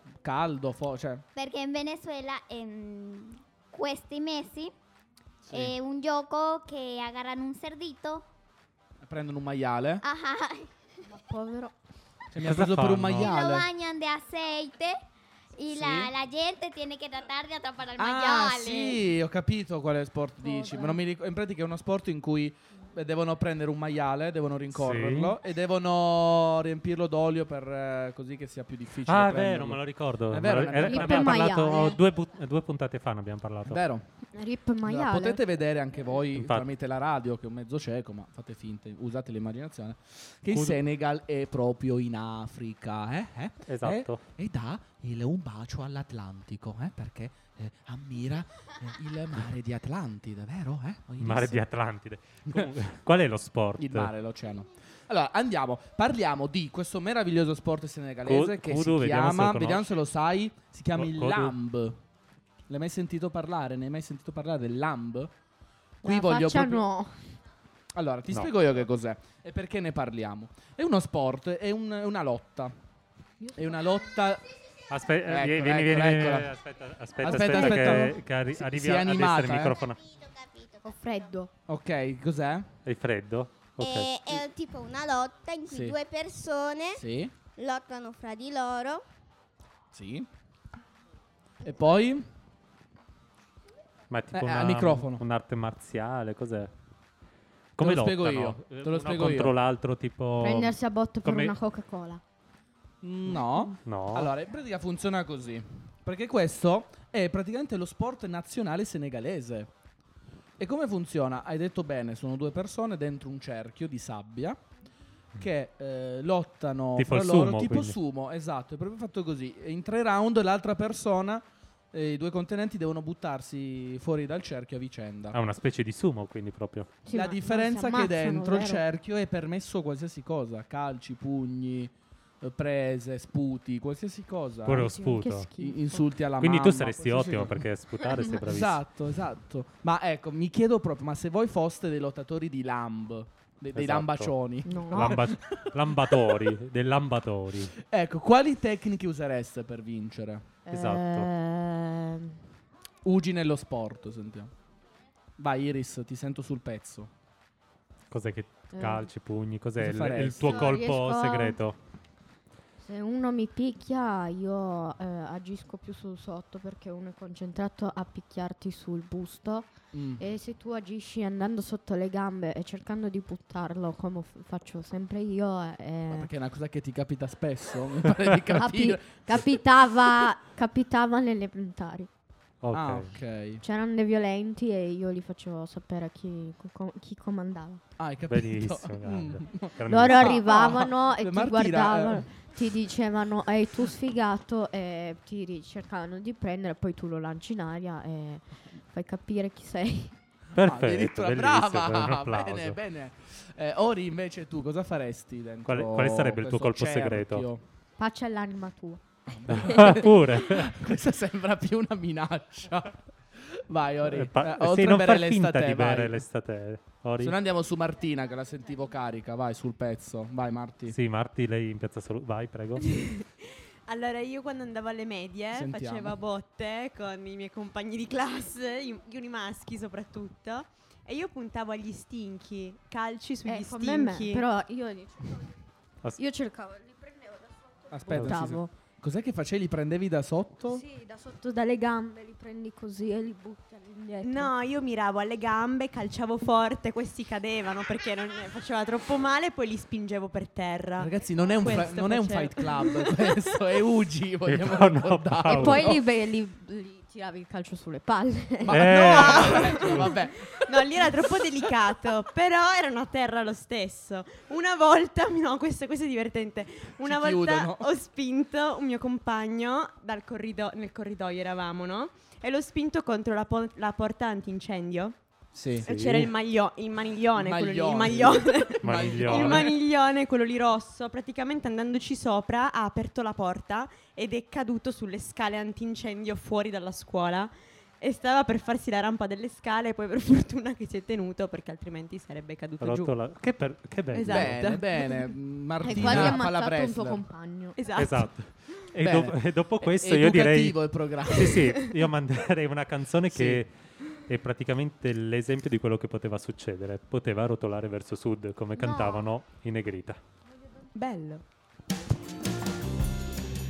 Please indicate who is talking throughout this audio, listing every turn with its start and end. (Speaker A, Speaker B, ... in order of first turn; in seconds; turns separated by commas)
Speaker A: 0.2-1.2, Speaker B: 1.4-4.7, Speaker A: 5.5-5.8, Speaker B: 5.5-8.3, Speaker A: 9.0-10.0, Speaker B: 10.0-10.7, Speaker C: 11.1-11.8, Speaker A: 12.3-13.7, Speaker D: 12.4-13.3, Speaker B: 13.2-15.0, Speaker B: 15.6-19.1, Speaker A: 15.7-16.1, Speaker A: 18.0-31.6, Speaker C: 20.4-21.0, Speaker D: 24.8-25.4, Speaker D: 29.1-33.8, Speaker C: 30.9-32.0, Speaker A: 33.7-34.0, Speaker C: 34.3-35.4, Speaker A: 34.8-51.6, Speaker D: 36.3-36.7, Speaker D: 43.7-44.2, Speaker D: 51.2-54.1, Speaker A: 52.5-52.7, Speaker A: 53.8-62.0, Speaker D: 58.2-59.9, Speaker D: 61.0-61.5, Speaker A: 62.7-65.3, Speaker A: 66.0-66.8, Speaker C: 66.0-67.1, Speaker A: 67.9-72.7, Speaker C: 73.4-73.9, Speaker A: 73.5-74.5, Speaker D: 74.9-80.0, Speaker A: 75.3-76.5, Speaker A: 77.2-79.8, Speaker E: 80.2-80.9, Speaker C: 80.8-81.5, Speaker A: 81.7-82.8, Speaker D: 82.8-84.1, Speaker E: 83.8-87.0, Speaker A: 85.7-86.0, Speaker A: 87.0-87.3, Speaker E: 87.6-89.0, Speaker A: 89.9-90.3, Speaker A: 91.6-92.3, Speaker D: 94.1-96.7, Speaker A: 94.3-95.2, Speaker D: 97.8-101.5, Speaker A: 97.8-99.6, Speaker C: 100.4-102.2, Speaker A: 103.0-109.7, Speaker D: 103.8-104.3, Speaker A: 110.6-114.6, Speaker A: 115.4-125.4, Speaker D: 117.0-118.0, Speaker D: 125.3-127.0, Speaker C: 127.1-128.8, Speaker A: 127.1-134.9, Speaker D: 134.7-135.5, Speaker C: 134.7-136.1, Speaker A: 135.6-137.7, Speaker D: 136.4-138.8, Speaker A: 138.3-146.5, Speaker D: 143.8-147.8, Speaker C: 144.7-145.2, Speaker A: 147.8-150.5, Speaker C: 150.7-152.4, Speaker D: 150.7-151.3, Speaker A: 153.0-154.5, Speaker A: 155.4-157.1, Speaker D: 158.1-161.8, Speaker C: 158.7-159.1, Speaker A: 159.8-160.7, Speaker C: 160.5-161.6, Speaker C: 162.8-176.3, Speaker A: 169.9-170.2, Speaker A: 176.1-179.5, Speaker C: 178.5-182.1, Speaker D: 182.6-183.1, Speaker A: 182.7-183.6, Speaker C: 183.6-187.8, Speaker A: 188.0-192.3, Speaker D: 188.3-190.4, Speaker C: 189.9-200.2, Speaker A: 200.6-207.6, Speaker D: 200.6-202.8, Speaker D: 205.7-207.5, Speaker C: 208.0-209.0, Speaker A: 209.3-216.2, Speaker D: 209.6-210.7, Speaker D: 214.1-217.4, Speaker A: 217.2-221.0, Speaker D: 220.9-222.9, Speaker F: 223.0-223.2, Speaker F: 223.9-234.5, Speaker A: 225.5-226.2, Speaker C: 233.5-235.5, Speaker C: 236.2-238.7, Speaker A: 237.9-240.8, Speaker D: 238.1-238.6, Speaker C: 240.7-244.5, Speaker F: 244.2-253.5, Speaker A: 251.0-256.0, Speaker D: 254.5-256.0, Speaker C: 255.5-258.8, Speaker A: 258.7-261.1, Speaker D: 258.7-260.1, Speaker F: 259.0-275.2, Speaker A: 267.0-267.9, Speaker A: 275.5-275.9, Speaker F: 275.8-293.2, Speaker D: 275.9-276.3, Speaker A: 277.4-279.7, Speaker D: 278.8-279.7, Speaker D: 292.8-294.7, Speaker F: 294.1-295.0, Speaker A: 294.3-297.2, Speaker C: 295.8-297.8, Speaker D: 296.0-296.3, Speaker F: 297.8-298.3, Speaker D: 297.9-303.7, Speaker A: 299.0-301.8, Speaker A: 303.3-303.6, Speaker D: 304.3-310.2, Speaker C: 308.8-309.3, Speaker F: 310.9-311.4